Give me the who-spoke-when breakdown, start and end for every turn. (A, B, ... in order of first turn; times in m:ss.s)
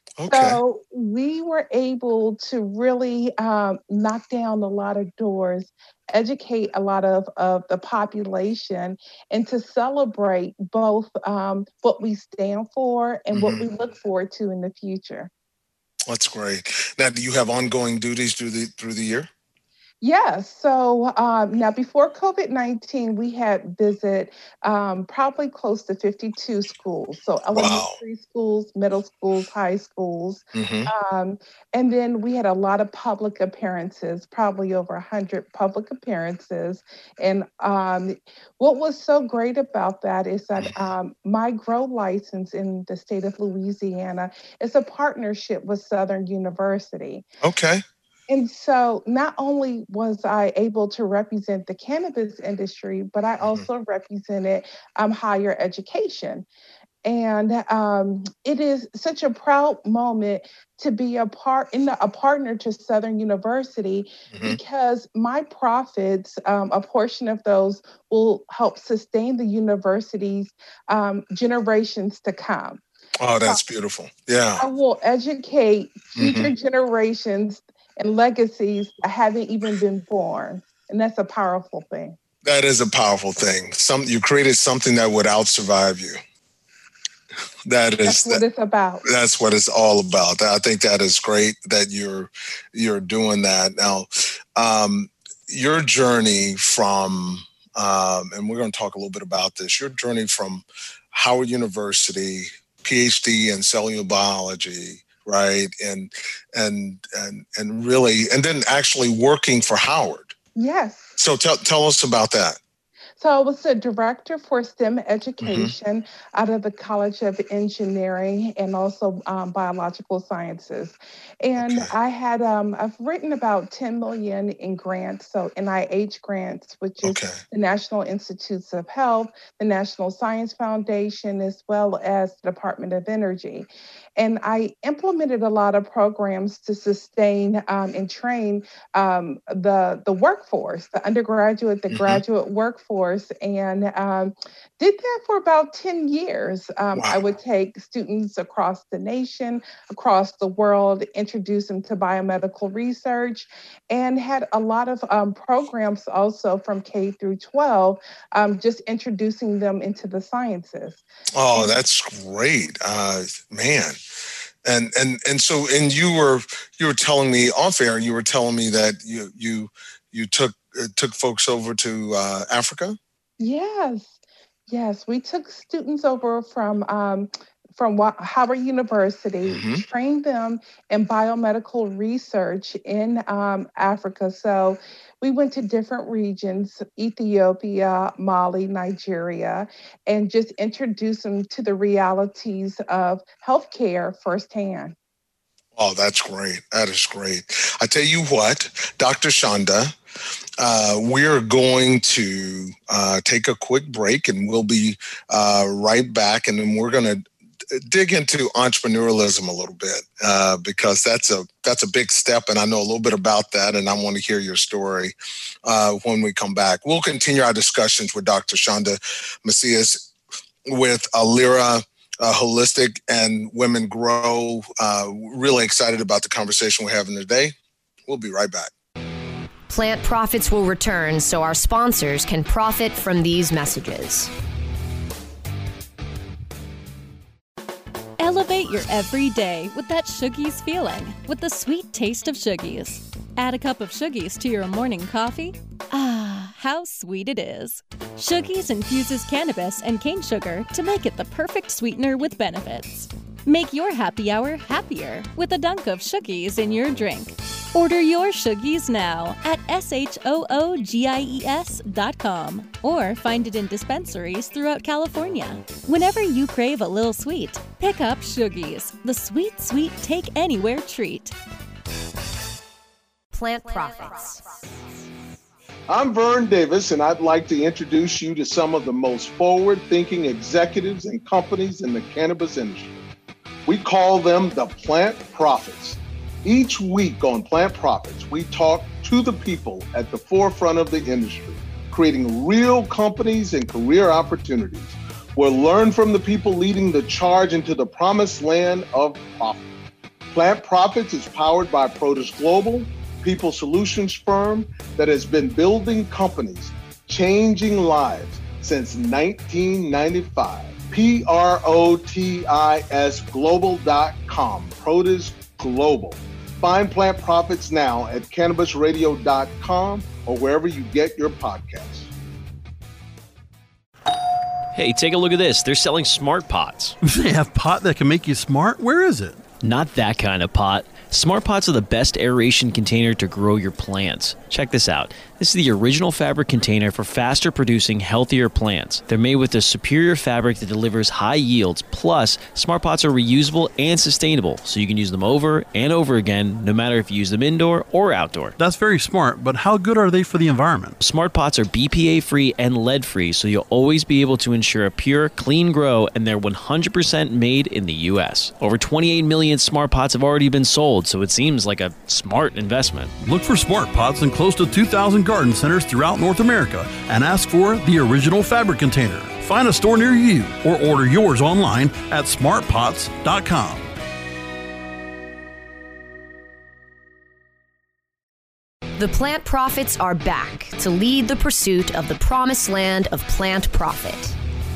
0:00.2-0:00.6 A
0:00.3-0:15.3 B
0:13.3-0:13.6 A
0:16.1-0:19.3 A
0:20.0-0:47.2 B
0:27.5-0:28.0 A
0:30.5-0:30.9 A
0:47.4-0:47.8 A
0:48.3-0:56.4 B
0:57.0-1:12.8 B
1:04.3-1:04.6 A
1:13.2-1:14.6 A
1:14.6-1:22.2 B
1:16.2-1:16.5 A
1:22.4-1:26.2 A
1:27.7-1:28.4 A
1:28.0-1:29.0 B
1:29.0-1:50.3 A
1:50.6-1:51.1 B
1:51.2-1:52.6 A
1:53.2-2:41.0 B
1:55.4-1:55.7 A
2:01.6-2:01.9 A
2:07.0-2:07.4 A
2:21.9-2:22.2 A
2:26.9-2:27.2 A
2:41.4-2:44.0 A
2:41.5-2:41.8 B
2:44.6-2:53.0 A
2:53.4-2:54.2 B
2:54.7-3:14.9 B
2:59.4-2:59.8 A
3:15.7-3:19.9 A
3:20.6-3:40.1 A
3:40.6-3:47.5 A
3:48.1-3:48.7 A
3:49.7-3:54.3 C
3:58.2-4:31.3 D
4:33.3-4:34.4 C
4:35.9-4:43.0 A
4:43.6-4:59.6 A
5:00.3-5:22.1 A
5:24.7-5:27.0 E
5:27.0-5:29.4 F
5:29.6-5:48.6 E
5:48.6-5:51.0 F
5:51.0-6:03.1 E
6:03.2-6:13.9 F
6:19.0-6:24.3 C